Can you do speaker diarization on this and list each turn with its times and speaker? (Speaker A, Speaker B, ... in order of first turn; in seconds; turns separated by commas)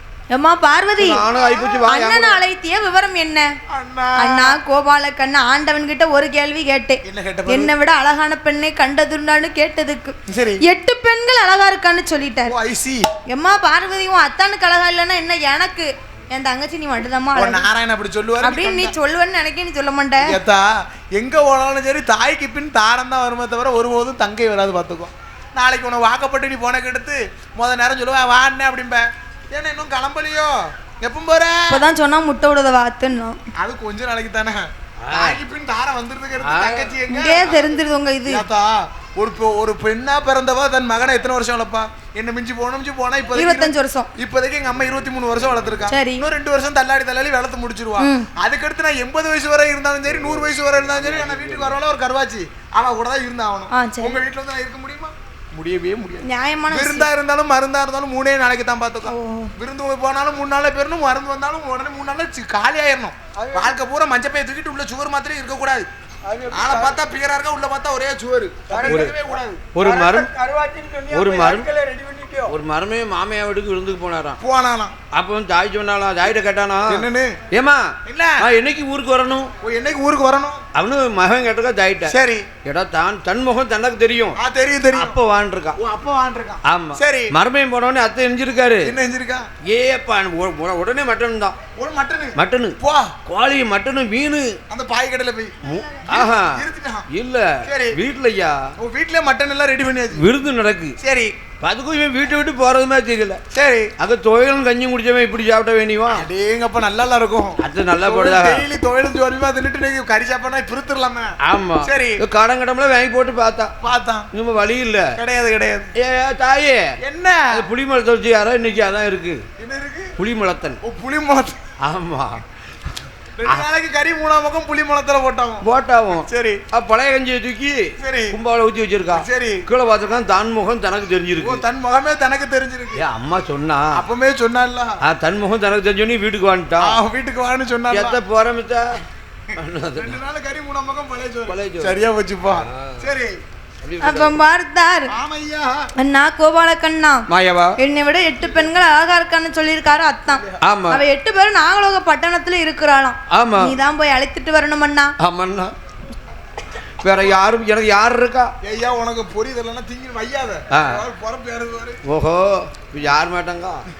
Speaker A: 0.3-1.3, Speaker B: 1.0-2.4, Speaker C: 1.3-1.9, Speaker A: 1.9-3.5, Speaker C: 3.7-4.6, Speaker A: 4.2-12.5, Speaker C: 7.0-7.7, Speaker C: 10.3-10.6, Speaker C: 12.5-13.1, Speaker A: 13.3-17.7, Speaker C: 17.3-18.9, Speaker A: 18.4-20.4, Speaker C: 20.2-31.8, Speaker A: 31.7-33.4, Speaker C: 33.5-37.7, Speaker B: 35.0-35.4, Speaker B: 36.4-36.9, Speaker A: 37.1-38.4, Speaker C: 38.3-65.9, Speaker A: 43.3-44.1, Speaker B: 45.6-45.9, Speaker A: 45.9-46.2, Speaker A: 48.0-48.3, Speaker B: 50.1-51.8, Speaker A: 53.7-54.1, Speaker A: 56.2-57.1, Speaker A: 59.0-59.5, Speaker B: 63.4-63.7, Speaker B: 66.2-67.0, Speaker C: 66.5-70.3, Speaker B: 68.7-70.3, Speaker B: 71.1-71.7, Speaker C: 71.1-72.5, Speaker B: 72.5-74.4, Speaker C: 74.4-74.9, Speaker B: 75.1-79.5, Speaker C: 76.9-77.4, Speaker C: 78.0-78.5, Speaker C: 79.6-80.6, Speaker B: 80.7-84.4, Speaker C: 82.1-82.5, Speaker C: 84.4-85.2, Speaker B: 84.9-85.8, Speaker C: 85.8-87.3, Speaker B: 86.7-88.9, Speaker C: 88.8-89.5, Speaker B: 89.6-91.5, Speaker C: 91.8-93.2, Speaker B: 92.4-94.6, Speaker C: 94.7-97.1, Speaker B: 95.6-98.6, Speaker C: 97.6-98.0, Speaker C: 98.8-100.3, Speaker B: 100.1-101.0, Speaker C: 101.0-101.3, Speaker B: 101.6-103.4, Speaker C: 103.5-103.9, Speaker B: 104.0-106.3, Speaker C: 106.1-112.2, Speaker B: 107.6-108.7, Speaker B: 111.4-113.7, Speaker C: 113.8-114.3, Speaker B: 114.3-115.1, Speaker C: 115.2-115.9, Speaker B: 116.0-116.9, Speaker C: 117.0-117.6, Speaker B: 117.5-119.4, Speaker C: 119.6-120.1, Speaker B: 120.2-120.8, Speaker C: 120.8-121.6, Speaker B: 121.8-122.4, Speaker C: 123.4-126.6, Speaker B: 125.6-131.6, Speaker C: 128.0-128.4, Speaker C: 129.1-129.6, Speaker C: 131.4-133.0, Speaker B: 133.0-134.0, Speaker C: 133.9-135.0, Speaker B: 135.0-137.0, Speaker C: 136.8-138.2, Speaker B: 137.9-139.0, Speaker B: 139.5-140.2, Speaker C: 139.9-143.4, Speaker B: 141.5-142.0, Speaker B: 142.5-143.1, Speaker B: 143.8-144.4, Speaker A: 144.0-145.1, Speaker C: 145.1-145.9, Speaker A: 146.0-147.2, Speaker B: 147.3-147.8, Speaker A: 147.8-155.1, Speaker C: 150.3-150.6, Speaker B: 150.6-151.0, Speaker B: 153.3-153.7, Speaker B: 155.2-155.7, Speaker B: 157.0-158.5, Speaker C: 158.6-162.0, Speaker B: 160.7-161.0, Speaker B: 162.1-163.8